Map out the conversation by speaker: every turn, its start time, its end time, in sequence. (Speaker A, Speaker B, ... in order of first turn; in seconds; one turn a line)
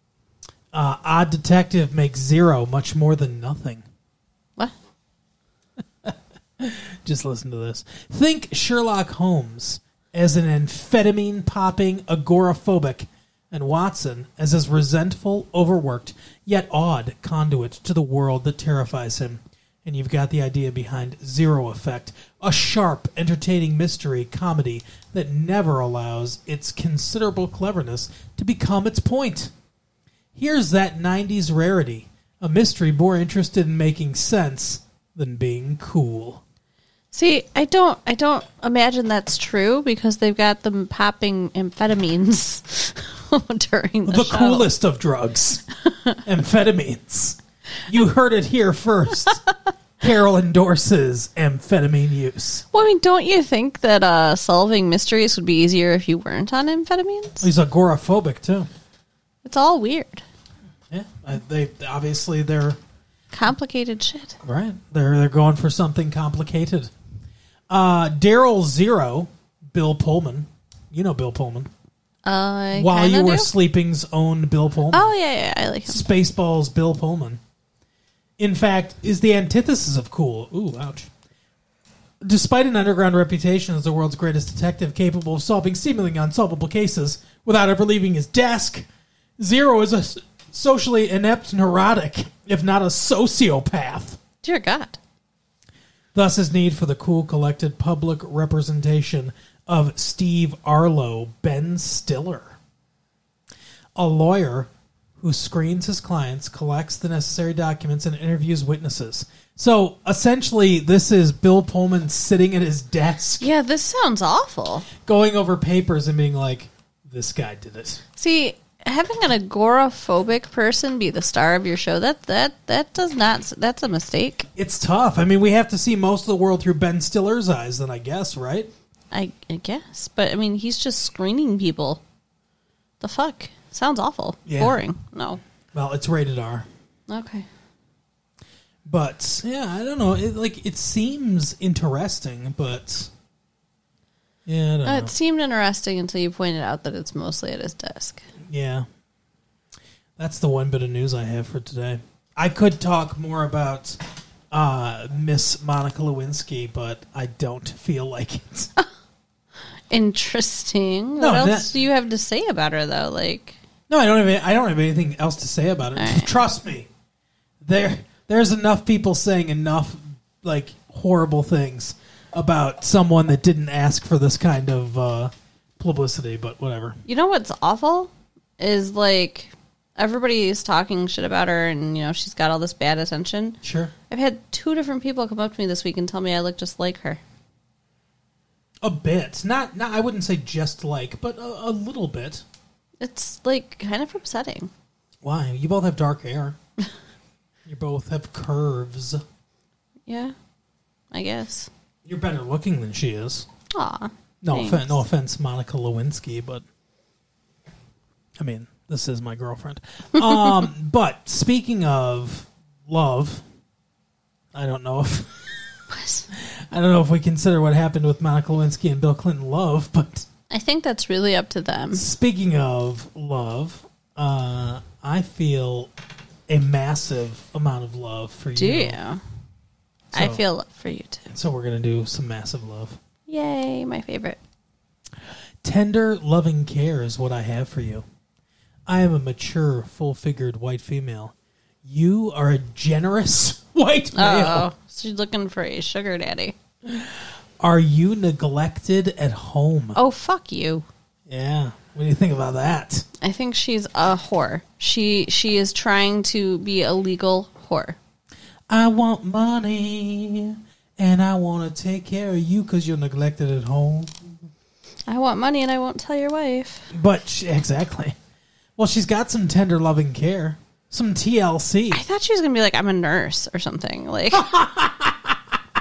Speaker A: 0.7-3.8
Speaker A: 6.0-29.5
Speaker A: 30.3-36.4
Speaker B: 37.1-44.6
Speaker A: 44.0-45.6
Speaker A: 46.2-49.4
Speaker A: 50.0-52.6
Speaker B: 52.7-57.5
Speaker A: 57.4-58.7
Speaker B: 59.4-60.2
Speaker A: 60.9-62.8
Speaker B: 63.3-64.4
Speaker A: 64.4-66.9
Speaker A: 67.7-71.7
Speaker B: 72.2-73.5
Speaker A: 72.7-75.1
Speaker B: 74.9-76.0
Speaker A: 75.8-77.4
Speaker A: 78.4-81.1
Speaker A: 82.2-88.8
Speaker A: 89.4-94.2
Speaker B: 94.4-95.0
Speaker A: 96.1-102.6
Speaker A: 104.0-113.5
Speaker B: 113.4-114.9
Speaker A: 115.0-118.0
Speaker B: 118.2-124.5
Speaker A: 124.5-128.7
Speaker B: 129.1-132.0
Speaker B: 133.0-135.4
Speaker A: 134.4-134.8
Speaker A: 135.7-136.7
Speaker B: 137.1-137.5
Speaker A: 138.8-143.1
Speaker A: 144.4-145.1
Speaker B: 144.8-148.2
Speaker A: 148.5-148.8
Speaker A: 150.2-154.0
Speaker A: 154.5-158.7
Speaker B: 159.9-163.6
Speaker A: 161.2-161.7
Speaker A: 163.9-166.9
Speaker B: 165.9-166.3
Speaker A: 167.6-177.0
Speaker B: 177.1-183.6
Speaker A: 183.6-183.9
Speaker B: 184.1-187.2
Speaker A: 188.8-192.4
Speaker B: 193.0-194.7
Speaker A: 195.2-196.6
Speaker A: 197.7-199.2
Speaker B: 200.1-200.3
Speaker B: 201.1-201.7
Speaker A: 202.0-203.4
Speaker B: 203.7-205.0
Speaker A: 204.4-206.6
Speaker A: 208.4-213.4
Speaker B: 210.3-210.6
Speaker A: 214.5-215.5
Speaker B: 215.9-216.3
Speaker A: 216.3-220.3
Speaker B: 220.5-222.0
Speaker A: 221.9-225.9
Speaker A: 226.5-229.0
Speaker B: 228.6-229.2
Speaker A: 230.1-230.4
Speaker B: 230.1-231.3
Speaker A: 231.3-233.0
Speaker B: 233.3-234.4
Speaker A: 235.6-238.0
Speaker A: 238.9-241.3
Speaker A: 241.8-244.7
Speaker B: 244.1-246.5
Speaker A: 246.9-250.0
Speaker B: 249.9-250.8
Speaker A: 251.3-253.1
Speaker B: 253.2-258.0
Speaker A: 258.7-264.1
Speaker B: 265.1-266.9
Speaker A: 266.9-268.1
Speaker A: 268.8-272.0
Speaker B: 271.9-274.5
Speaker A: 274.3-275.4